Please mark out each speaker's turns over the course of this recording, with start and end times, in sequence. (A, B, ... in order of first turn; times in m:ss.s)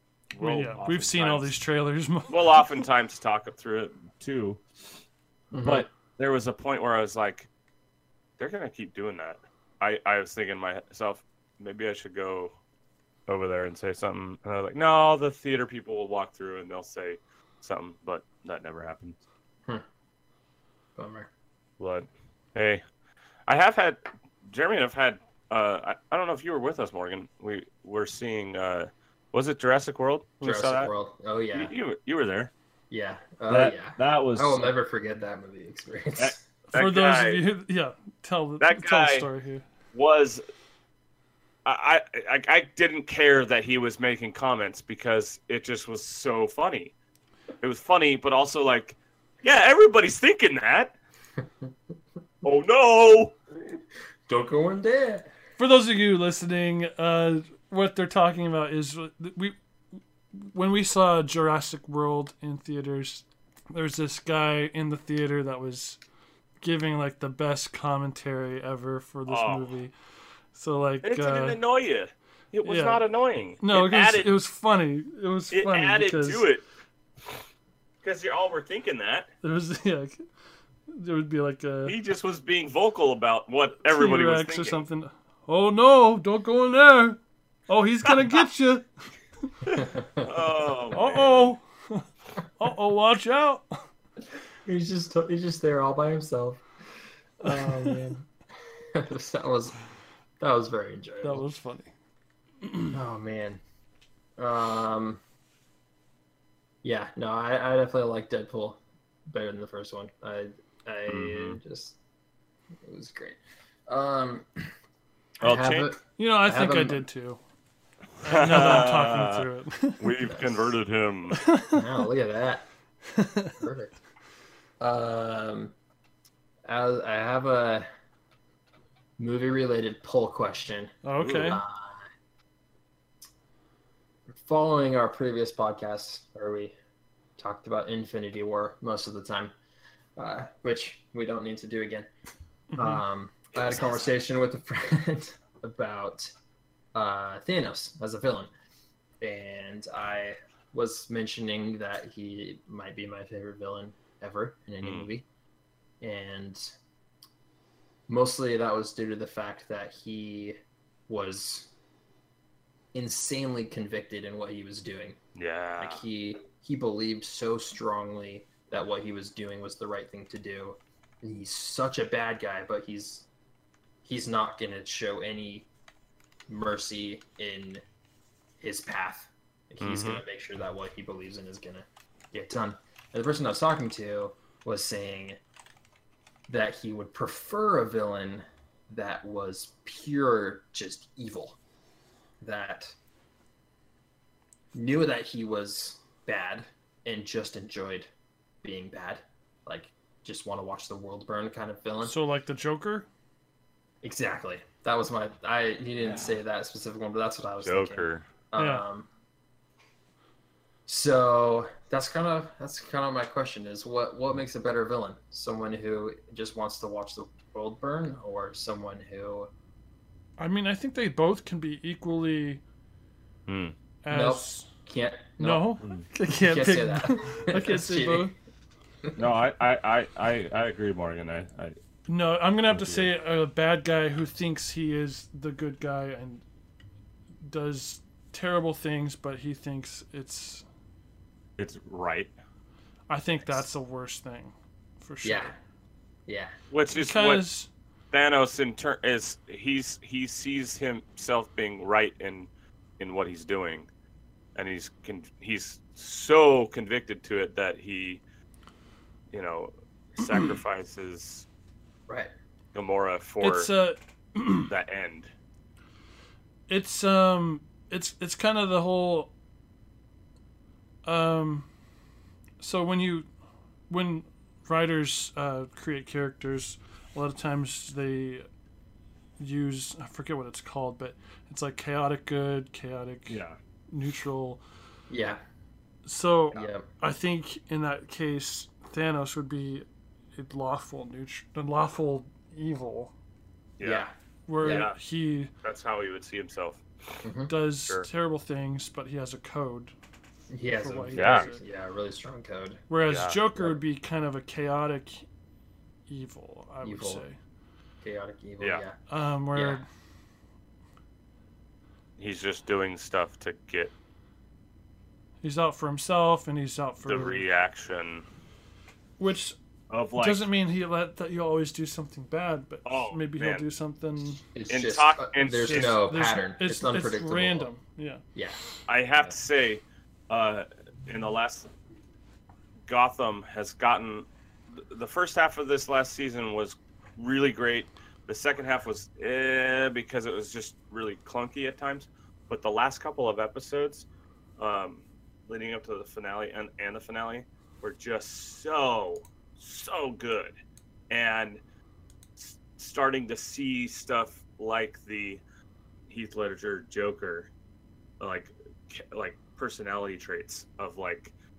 0:00.3-0:01.5 A
0:00.4-0:02.8 B
0:02.3-0:04.6 A
0:05.5-0:05.9 C
0:05.6-0:07.5 A
0:08.4-0:12.5 A
0:13.3-0:19.2 A
0:21.0-0:21.3 C
0:21.8-0:22.8 A
0:23.5-0:30.9 A
0:30.4-0:31.7 C
0:31.5-0:32.5 A
0:32.9-0:36.4 C
0:33.5-0:34.7 A
0:36.2-0:37.4 A
0:36.7-0:39.6 B
0:38.6-0:39.3 A
0:39.9-0:40.4 A
0:41.6-0:46.9 A
0:47.6-0:50.9 A
0:52.4-0:53.3 A
0:54.3-0:55.3 C
0:55.6-0:59.6 B
1:00.3-1:06.0 B
1:06.6-1:09.9 B
1:09.3-1:09.7 A
1:10.5-1:11.6 B
1:11.0-1:14.3 A
1:12.6-1:13.0 B
1:13.6-1:16.4 B
1:15.5-1:16.6 A
1:18.0-1:19.3 A
1:19.4-1:20.2 B
1:20.9-1:21.9 B
1:21.8-1:24.8 A
1:23.8-1:28.9 B
1:29.6-1:31.5 A
1:29.8-1:30.3 C
1:30.9-1:33.8 B
1:34.6-1:36.6 C
1:37.4-1:38.2 C
1:37.4-1:38.1 B
1:38.9-1:39.7 C
1:40.4-1:41.4 C
1:41.2-1:41.9 B
1:42.9-1:43.6 C
1:44.4-1:45.2 C
1:46.8-1:52.0 C
1:51.1-1:51.6 A
1:52.8-1:54.7 C
1:55.4-1:57.0 C
1:55.4-1:55.9 A
1:56.0-1:57.4 B
1:58.2-2:00.1 B
1:58.2-1:59.5 A
2:00.0-2:01.4 A
2:00.2-2:00.7 C
2:01.3-2:01.8 B
2:01.7-2:02.6 C
2:03.1-2:03.6 B
2:03.6-2:04.0 C
2:04.8-2:05.7 C
2:06.7-2:07.8 C
2:09.2-2:12.1 C
2:11.0-2:11.6 B
2:11.2-2:11.6 A
2:14.3-2:16.7 C
2:17.4-2:19.5 C
2:20.2-2:22.1 C
2:22.7-2:23.0 B
2:22.7-2:26.3 C
2:23.5-2:24.1 A
2:26.9-2:28.5 C
2:29.2-2:35.2 C
2:34.8-2:35.1 A
2:36.0-2:36.7 C
2:38.1-2:40.6 C
2:41.1-2:41.7 C
2:42.9-2:45.2 C
2:45.3-2:46.0 A
2:45.8-2:53.3 C
2:54.0-2:55.7 C
2:56.5-2:57.8 C
2:58.6-3:05.4 C
2:59.8-3:00.2 A
3:06.5-3:11.6 C
3:12.4-3:12.9 C
3:14.7-3:18.1 C
3:18.6-3:22.2 C
3:22.0-3:23.1 B
3:24.0-3:29.1 C
3:26.0-3:26.4 A
3:27.6-3:28.2 A
3:28.6-3:28.8 B
3:30.9-3:39.5 C
3:40.4-3:42.6 B
3:43.5-3:43.7 A
3:44.0-3:44.7 B
3:44.1-3:45.7 C
3:45.4-3:48.3 B
3:45.8-3:46.1 A
3:46.3-3:48.3 C
3:49.2-3:51.8 A
3:52.1-3:56.4 B
3:52.7-3:53.1 A
3:57.4-4:00.6 B
4:01.6-4:02.3 A
4:03.1-4:05.5 B
4:03.4-4:03.7 C
4:05.2-4:05.6 C
4:06.3-4:06.5 C
4:06.7-4:07.4 A
4:06.9-4:07.7 B
4:08.1-4:13.9 A
4:14.5-4:18.2 A
4:19.3-4:21.4 A
4:22.7-4:23.7 A
4:23.4-4:24.7 B
4:24.7-4:25.3 A
4:26.7-4:29.3 B
4:31.0-4:31.7 B
4:32.6-4:33.3 B
4:33.9-4:38.5 B
4:39.4-4:43.4 B
4:43.3-4:43.6 A
4:43.9-4:44.6 B
4:45.1-4:45.4 C
4:46.0-4:49.8 B
4:46.5-4:46.8 C
4:50.4-4:53.1 B
4:53.8-4:54.0 A
4:53.8-4:54.9 C
4:54.5-4:55.5 B
4:54.6-4:55.0 A
4:55.6-4:57.2 A
4:57.2-4:57.5 C
4:57.5-4:59.9 B
5:00.5-5:02.8 C
5:00.8-5:01.6 B
5:01.1-5:01.5 A
5:02.9-5:05.3 B
5:03.1-5:03.4 A
5:06.1-5:07.4 B
5:06.8-5:07.2 C
5:08.0-5:09.0 C
5:09.1-5:09.8 B
5:09.5-5:09.8 C
5:12.2-5:13.9 A
5:15.4-5:17.4 B
5:17.0-5:18.2 A
5:19.2-5:19.6 B
5:19.9-5:20.5 A
5:20.2-5:24.4 B
5:22.8-5:23.6 A
5:24.5-5:27.7 C
5:24.7-5:26.0 A
5:25.5-5:28.2 B
5:28.9-5:31.7 A
5:32.9-5:44.0 A
5:44.6-5:50.5 A
5:51.1-5:51.6 A
5:52.4-5:55.4 A
5:56.1-5:57.5 A
5:58.2-6:01.3 A